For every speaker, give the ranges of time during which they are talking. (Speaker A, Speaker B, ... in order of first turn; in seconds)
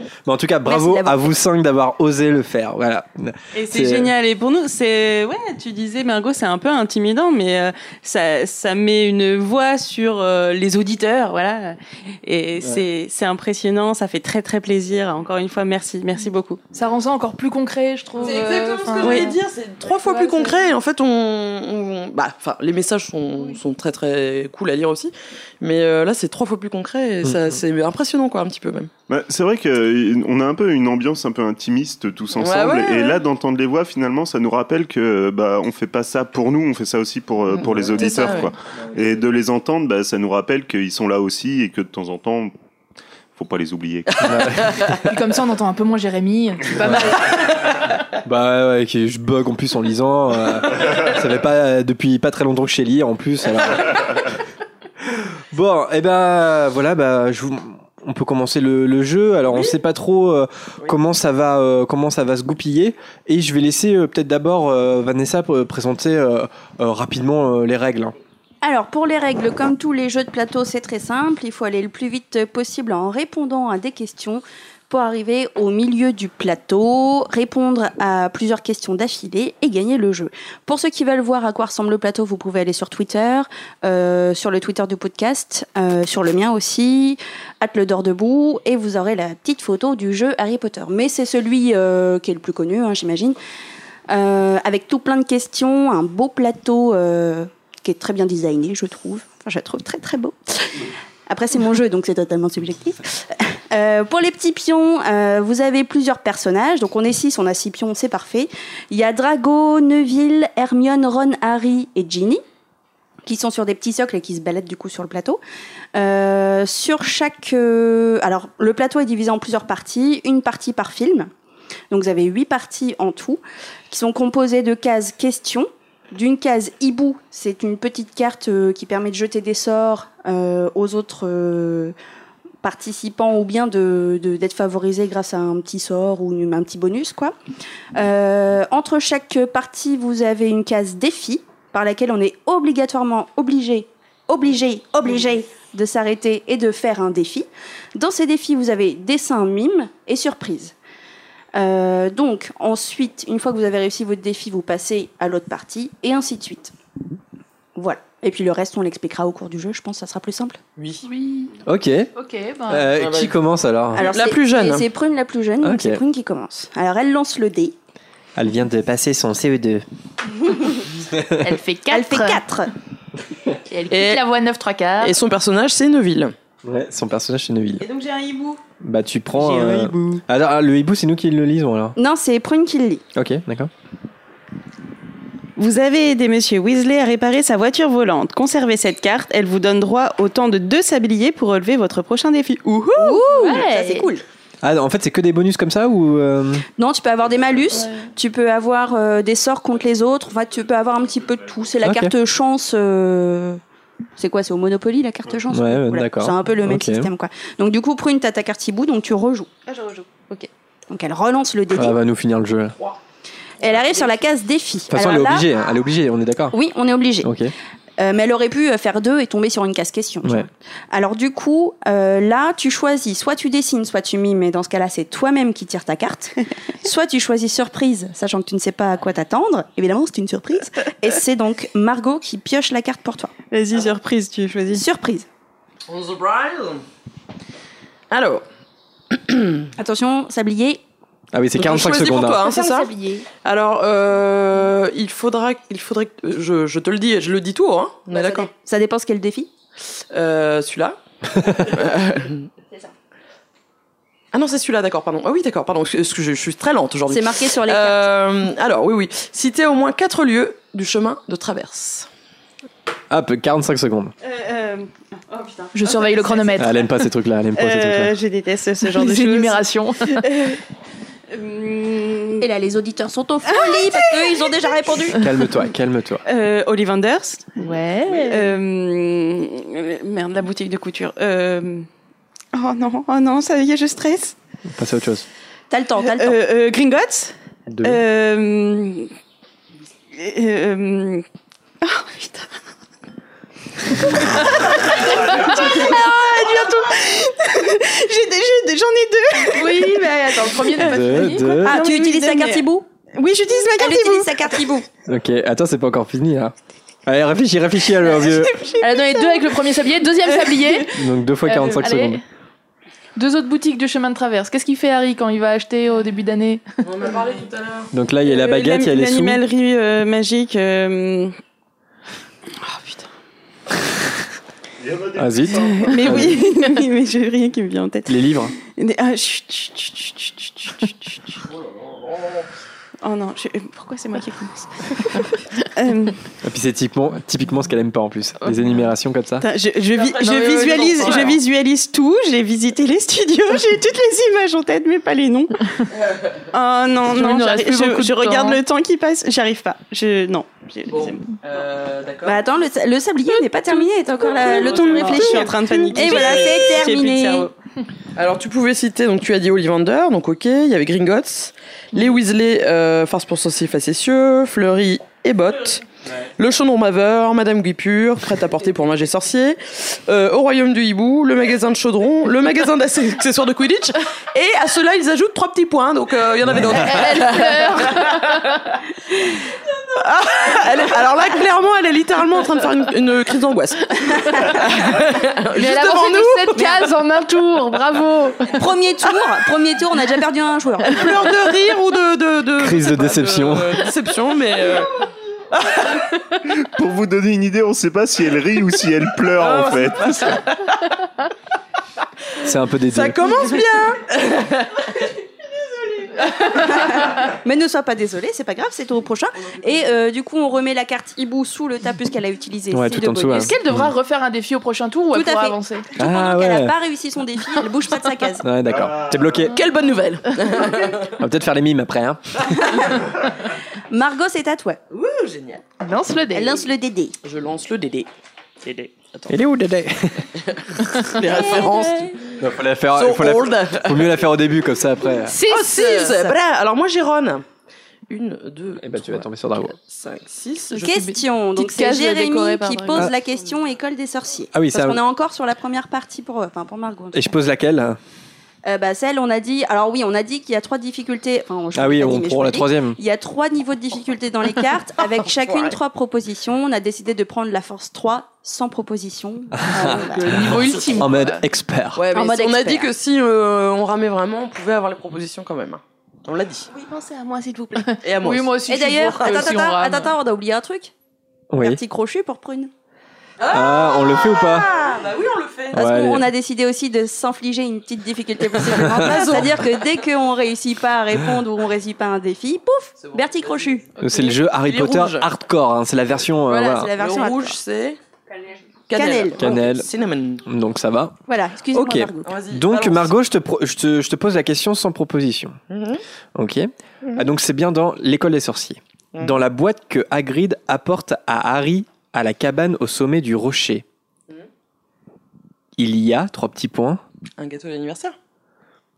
Speaker A: 0.2-4.1, 27.2-27.6, 44.2-44.9, 46.8-47.1, 48.2-54.2, 55.1-68.1, 161.6-162.1, 162.7-164.0, 165.6-166.0, 168.3-169.8, 171.1-171.5, 176.6-177.8, 178.8-181.9, 183.1-183.7, 194.6-196.6, 201.8-202.1, 205.5-207.1, 211.7-212.8, 214.9-216.6, 217.2-217.5, 241.3-242.4, 251.3-251.6, 263.1-264.1, 266.6-268.1, 275.2-276.2, 284.7-285.2, 287.7-288.0, 300.8-301.8, 305.1-306.5, 307.1-308.5, 310.9-312.2, 317.9-319.4, 325.2-326.4, 328.1-328.5, 336.4-339.4, 392.6-393.9, 402.4-403.2, 412.7-413.9, 415.9-416.7, 418.4-419.6, 421.2-422.5, 429.3-430.3, 432.4-435.4, 438.8-439.7, 444.5-445.0, 447.1-448.0, 451.7-453.0, 459.5-462.0, 471.5-471.8, 473.5-474.7, 475.7-476.3, 478.9-479.2, 484.0-486.9, 489.4-489.9, 490.4-491.2, 491.7-495.6, 496.3-503.8, 505.8-507.0
Speaker B: 0.7-1.2, 68.6-93.4, 94.1-112.4, 113.2-115.4, 116.0-121.3, 121.9-131.9, 132.6-137.3, 137.9-150.7, 151.5-156.7, 157.8-160.6, 163.9-167.8, 171.9-172.7, 182.0-183.0, 192.9-194.2, 196.8-203.6, 204.2-209.5, 210.9-212.0, 213.6-215.5, 216.5-217.3, 218.0-233.3, 234.7-235.3, 239.8-240.8, 242.4-243.2, 248.1-249.5, 257.1-258.1, 272.4-275.2, 285.7-286.4, 301.6-302.9, 303.8-304.9, 352.2-357.5, 386.5-386.9, 388.5-391.2, 406.4-413.5, 415.1-418.5, 423.9-424.8, 426.3-427.1, 431.2-432.1, 440.8-447.3, 448.6-460.5, 462.1-462.9, 468.7-470.9, 471.6-472.7, 475.7-483.8, 486.5-487.6, 488.9-489.6, 491.3-492.3
Speaker C: 3.5-16.6, 177.8-178.6, 179.3-180.2, 185.6-193.7, 209.7-210.5, 233.5-234.8, 264.2-266.6, 267.6-270.6, 271.3-272.5, 273.4-274.9, 276.2-281.9, 282.5-284.4, 286.0-289.1, 290.1-291.2, 291.8-292.6, 293.9-304.6, 308.4-309.4, 310.3-310.8, 318.2-321.4, 322.6-323.1, 325.7-331.4, 333.0-336.2, 339.4-345.6, 346.5-351.3, 354.2-357.5, 466.7-467.8
Speaker D: 16.7-20.7, 45.0-47.9, 161.0-161.6, 162.2-162.9, 171.4-172.4, 173.7-175.2, 193.3-194.0, 265.7-267.0, 268.8-270.1, 277.6-278.4, 299.6-301.6, 308.8-310.9, 311.4-312.2, 313.1-316.6, 347.1-348.6, 376.7-378.6, 384.1-384.6, 385.5-388.6, 413.3-415.9, 425.8-426.6, 435.1-436.3, 440.8-443.1, 459.7-461.4, 467.8-470.1
Speaker E: 18.2-28.9, 32.4-33.2, 37.5-38.5, 44.2-45.0, 160.8-161.1, 162.9-163.3, 163.9-164.8, 173.9-174.2, 175.0-176.3, 235.9-236.8, 238.1-238.4, 239.1-239.6, 241.6-248.5, 250.1-251.0, 251.6-252.5, 254.3-262.1, 316.8-317.9, 332.0-332.4, 339.9-341.4, 345.9-346.4, 350.9-352.4, 354.1-356.8, 358.1-365.8, 366.4-378.2, 379.9-386.6, 390.9-395.0, 395.5-395.8, 399.4-400.8, 402.9-405.1, 419.5-421.1, 424.9-425.6, 427.2-428.1, 428.6-429.3, 430.4-432.3, 432.9-434.3, 435.4-437.4, 438.1-441.0, 455.3-455.8, 461.9-466.7, 468.0-468.6, 469.1-469.5, 473.4-475.8, 478.8-479.8, 483.0-485.3, 486.9-488.0, 488.9-490.4, 492.2-493.1, 495.7-496.0, 499.1-499.4, 507.4-508.1
Speaker F: 29.1-42.5, 43.3-44.6, 324.8-326.3, 396.4-400.4, 418.6-419.5